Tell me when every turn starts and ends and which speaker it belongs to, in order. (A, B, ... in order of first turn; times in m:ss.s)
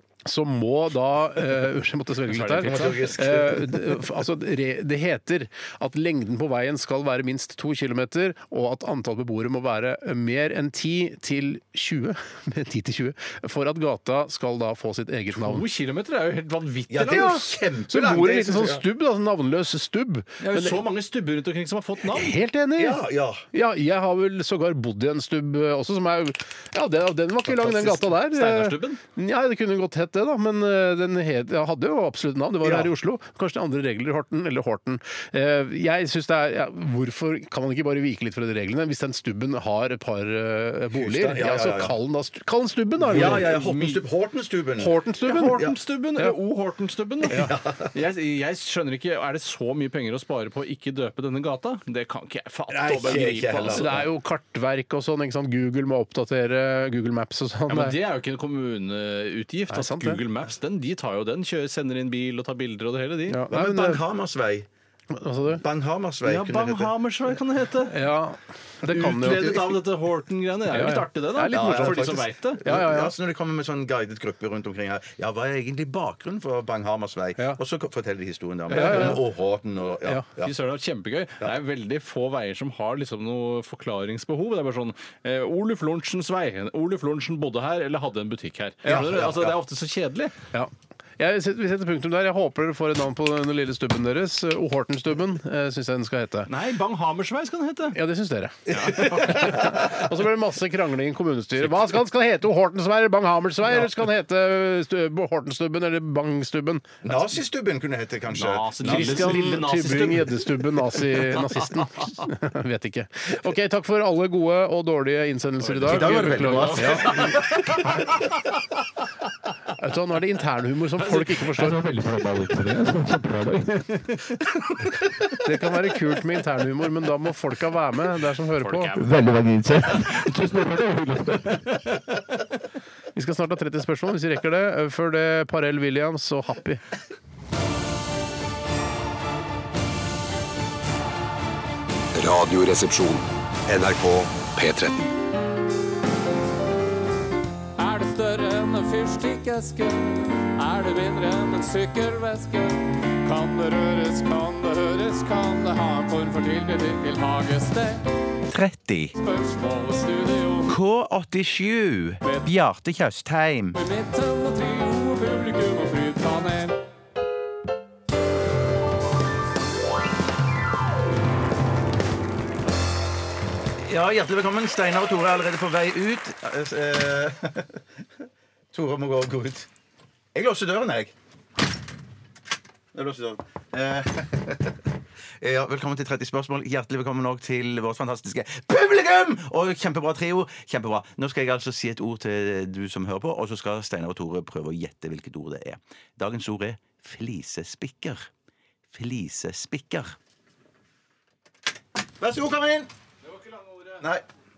0:00.2-0:15.6 A
0:02.3-0:03.2 B
0:02.6-0:04.0 C
0:15.3-0:17.5 B
0:16.9-0:18.8 C
0:17.9-0:20.8 A
0:20.4-0:22.3 B
0:22.1-0:43.5 A
0:22.8-0:23.4 C
0:27.5-0:28.1 C
0:28.3-0:29.0 B
0:32.6-0:32.9 C
0:40.9-0:42.0 C
0:43.0-0:45.0 C
0:43.1-0:44.0 B
0:44.8-0:45.6 A
0:45.2-0:54.0 B
0:47.3-0:47.9 C
0:52.7-0:54.0 C
0:53.7-0:58.0 A
0:57.7-1:03.4 B
0:59.7-1:00.2 A
1:03.3-1:04.0 A
1:03.5-1:04.7 C
1:05.1-1:05.6 A
1:05.6-1:06.9 C
1:06.2-1:08.0 B
1:07.9-1:09.5 A
1:08.8-1:12.6 B
1:09.4-1:09.8 C
1:10.7-1:13.1 A
1:11.5-1:20.5 C
1:18.7-1:19.2 A
1:18.7-1:19.1 B
1:20.4-1:30.3 B
1:28.8-1:29.1 A
1:28.9-1:29.5 C
1:30.5-1:36.5 A
1:36.5-1:38.0 B
1:37.9-1:47.1 A
1:38.7-1:39.8 B
1:47.0-1:49.6 C
1:48.3-1:51.8 B
1:48.8-1:57.4 A
1:55.6-1:58.6 B
1:55.8-1:58.0 C
1:59.8-2:03.1 A
2:01.0-2:02.1 B
2:04.1-2:04.7 B
2:05.4-2:09.1 A
2:08.6-2:10.6 B
2:11.1-2:12.6 B
2:13.1-2:16.8 A
2:22.1-2:25.1 D
2:27.8-2:38.0 E
2:38.5-2:39.1 C
2:39.2-2:40.8 E
2:40.7-2:43.8 C
2:42.2-2:42.5 E
2:43.7-2:46.8 E
2:53.8-2:57.8 C
2:58.7-2:59.7 C
3:00.3-3:01.1 C
3:02.9-3:04.8 C
3:05.4-3:18.3 C
3:18.9-3:20.2 C
3:22.2-3:22.9 C